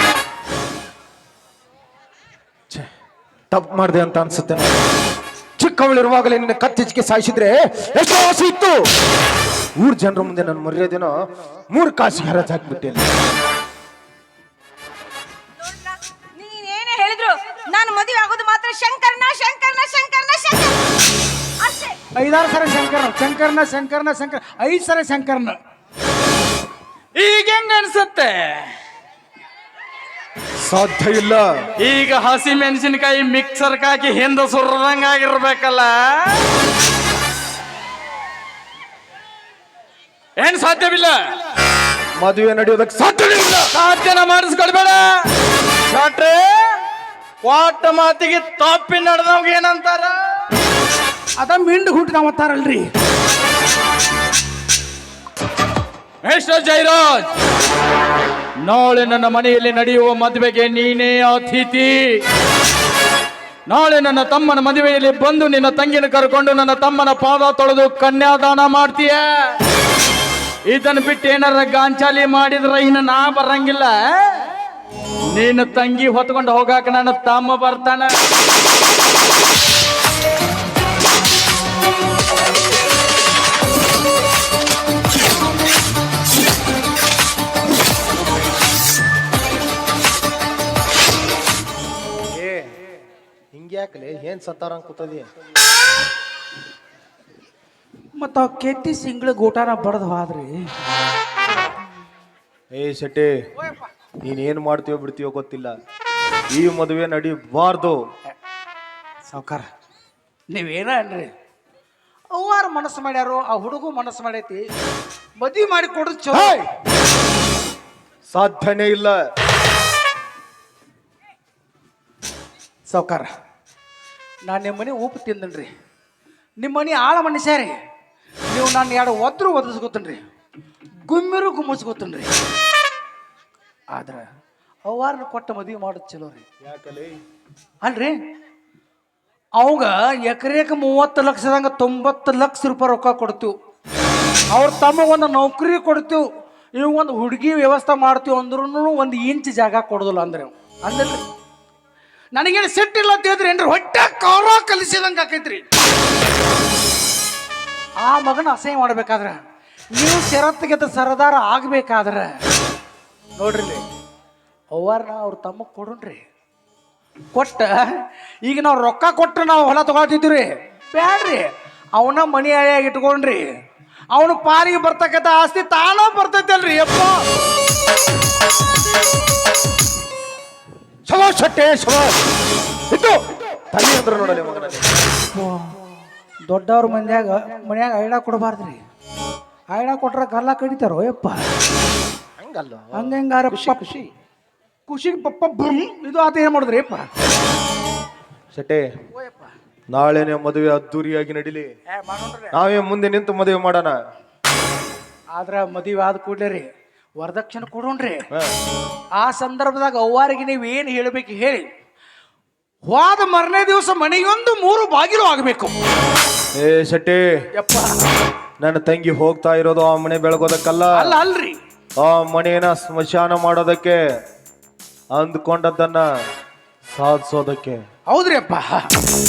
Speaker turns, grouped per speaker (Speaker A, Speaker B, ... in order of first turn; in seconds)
Speaker A: 3.5-4.9, 5.6-8.8, 9.8-11.1, 11.7-13.1, 30.6-31.5, 42.2-43.7, 92.3-92.7, 93.5-95.2, 102.7-103.3, 104.2-105.7, 106.5-108.0, 116.3-116.6, 118.3-119.2, 136.6-137.2, 181.1-182.2, 182.9-184.9, 192.4-194.1, 198.5-198.9, 199.9-201.7, 202.5-204.0, 216.5-217.3, 218.6-221.2, 222.0-224.0, 225.1-226.1, 226.9-227.8
Speaker B: 15.6-20.9, 21.6-22.0
Speaker C: 22.1-25.6, 51.4-52.9, 98.2-100.7, 109.2-109.7, 110.5-111.3, 112.3-114.7, 115.4-116.7, 122.9-123.3, 124.4-125.7, 126.6-127.7, 128.5-130.2, 131.0-132.3, 133.9-134.2, 134.8-136.4, 137.8-138.2, 139.6-143.5, 144.5-146.2, 146.8-151.2, 152.3-155.7, 158.0-159.4, 159.9-162.3, 163.4-163.8, 164.7-166.2, 167.3-173.4, 174.1-177.2, 185.3-185.8, 186.5-188.8, 189.7-191.4, 192.9-193.8, 194.9-197.1, 199.1-199.5, 201.9-202.6, 205.3-208.2, 209.2-211.7, 212.8-215.8, 217.5-217.9, 220.9-221.6, 228.1-228.9
Speaker D: 27.1-28.7, 31.8-36.4, 40.4-41.2, 43.7-45.3, 45.9-46.8, 47.4-50.4, 56.2-57.3, 58.6-62.2, 63.7-69.6, 70.7-74.5, 75.3-78.1